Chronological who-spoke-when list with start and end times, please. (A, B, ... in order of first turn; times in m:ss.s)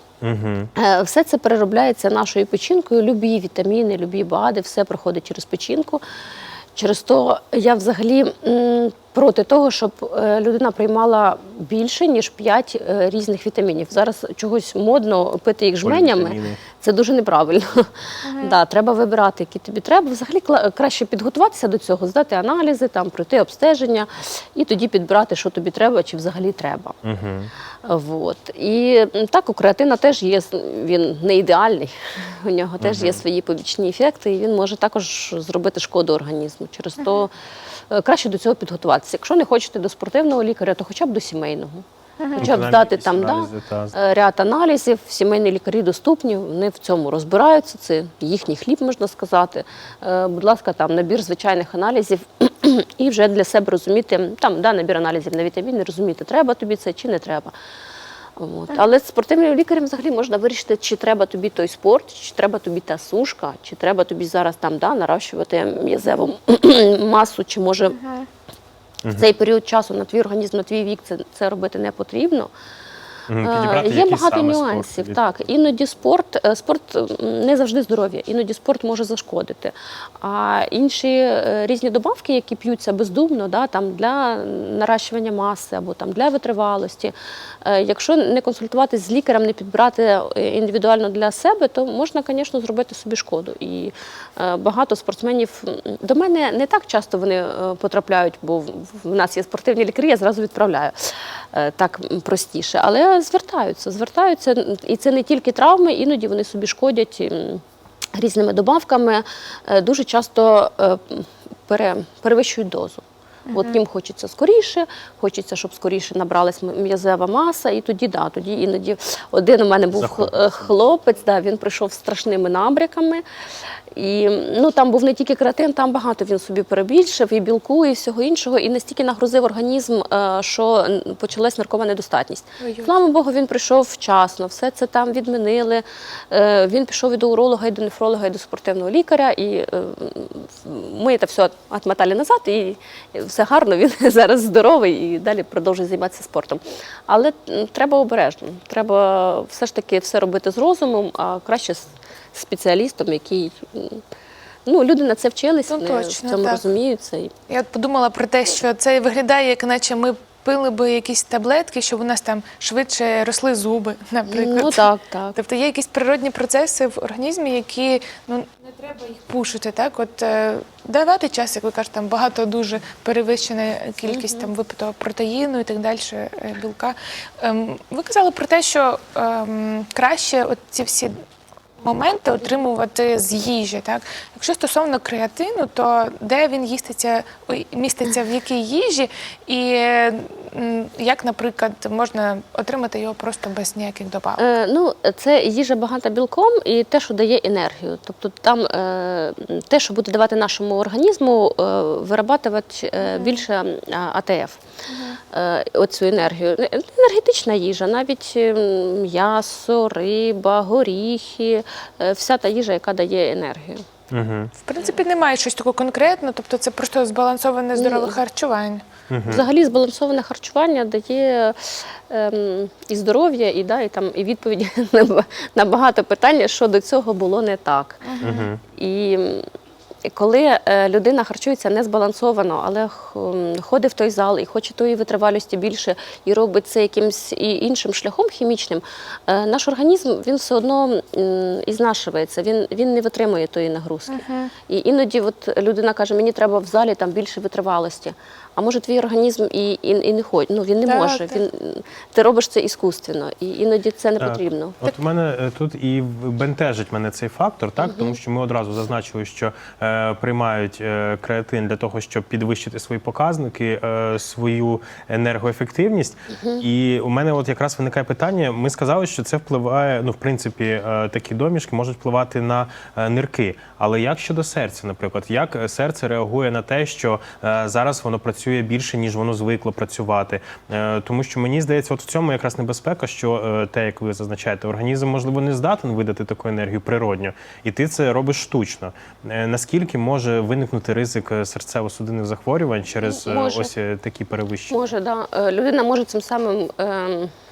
0:00.2-0:00.7 A
0:00.8-0:06.0 B
0:06.8-0:27.0 B
0:15.8-0:16.6 A
0:27.0-0:27.5 A
0:27.8-0:37.3 B
0:32.8-0:33.2 A
0:37.9-0:41.8 B
0:42.4-0:57.5 B
0:42.4-0:44.0 A
0:58.4-1:08.1 B
1:09.2-1:12.5 B
1:13.3-1:15.5 A
1:13.4-1:47.6 B
1:48.2-2:03.2 B
1:53.5-1:53.8 C
1:59.9-2:00.7 A
2:03.9-2:34.0 B
2:12.6-2:12.9 C
2:34.7-2:37.3 B
2:35.7-2:36.6 C
2:37.5-3:01.2 C
2:44.3-2:45.4 B
2:54.1-2:54.5 B
3:01.8-3:14.4 C
3:14.4-3:24.6 B
3:23.0-3:23.4 C
3:24.9-3:25.2 C
3:25.3-3:33.8 B
3:34.1-3:34.5 A
3:34.6-3:38.8 C
3:37.8-3:38.2 B
3:39.1-3:39.5 A
3:39.3-3:49.4 B
3:48.1-3:48.5 C
3:48.2-3:48.6 A
3:50.1-4:14.8 B
4:04.1-4:04.5 C
4:10.8-4:11.4 C
4:14.2-4:54.9 A
4:17.8-4:18.2 B
4:26.3-4:26.6 B
4:53.0-4:53.7 B
4:54.7-4:57.3 B